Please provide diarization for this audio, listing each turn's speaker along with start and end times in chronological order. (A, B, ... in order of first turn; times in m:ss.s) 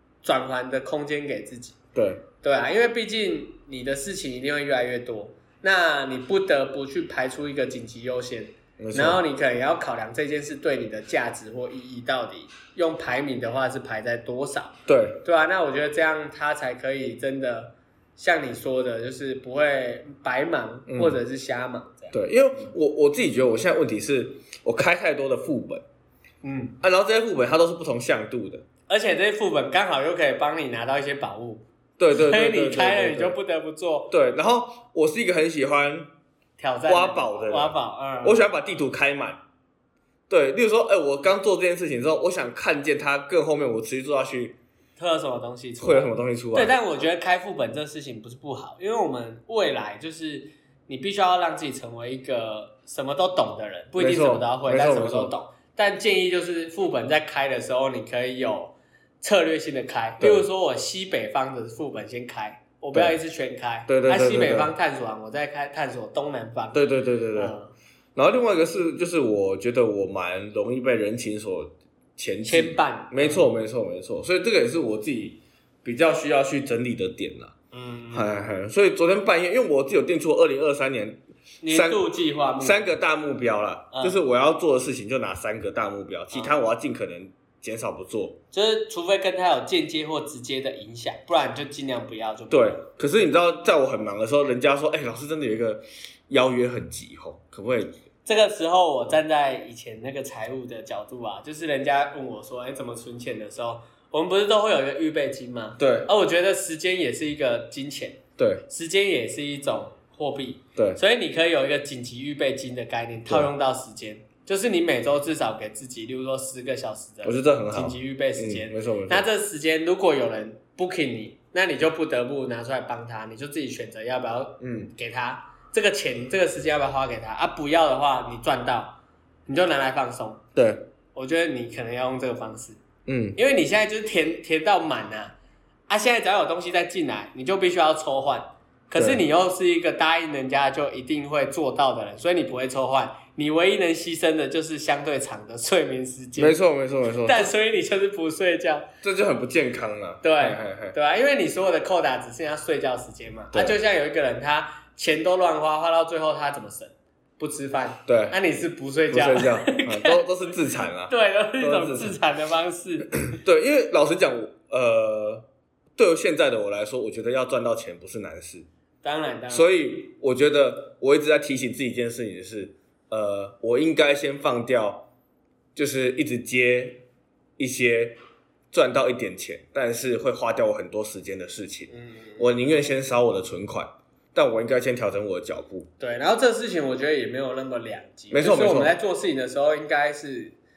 0:00.2-0:01.8 A
0:01.9-0:02.2 B
0:02.4-0:22.2 A
0:08.8-0:09.2 B
0:14.9-0:15.2 B
0:20.9-0:21.2 B
0:22.1-0:25.8 B
0:26.4-0:26.8 A
0:26.8-0:28.6 B
0:28.9-0:34.1 A
0:32.0-0:33.3 B
0:34.1-0:36.1 B
0:36.6-0:38.4 A
0:36.9-0:39.4 B
0:40.3-0:44.6 B
0:45.0-1:06.8 A
0:45.8-0:46.7 B
0:54.0-0:55.3 B
1:00.2-1:00.4 B
1:02.9-1:03.2 B
1:03.9-1:04.7 B
1:06.7-1:07.5 B
1:07.3-1:07.7 A
1:08.2-1:17.5 B
1:12.4-1:13.5 A
1:17.7-1:18.5 A
1:18.1-1:28.4 B
1:21.6-1:22.8 A
1:23.9-1:24.2 A
1:28.5-1:32.8 A
1:32.5-1:38.0 B
1:38.2-2:10.4 A
1:45.8-1:46.1 B
1:48.4-1:48.6 B
1:57.2-1:59.2 B
2:04.6-2:04.9 B
2:10.6-2:10.9 B
2:11.1-2:12.8 A
2:13.0-2:13.4 B
2:13.4-2:15.3 A
2:15.9-2:26.6 A
2:19.0-2:19.2 B
2:26.4-2:27.5 B
2:27.2-2:28.9 A
2:29.0-2:31.0 B
2:30.2-2:40.2 A
2:33.5-2:33.8 B
2:38.1-2:38.4 B
2:39.1-2:42.2 B
2:41.1-2:43.2 A
2:43.3-2:45.4 B
2:46.0-2:48.7 B
2:49.0-2:49.6 A
2:49.5-2:55.1 B
2:55.8-2:57.0 B
2:57.6-2:58.2 B
2:58.7-3:05.9 B
3:01.9-3:02.5 A
3:06.0-3:10.5 A
3:08.3-3:08.9 B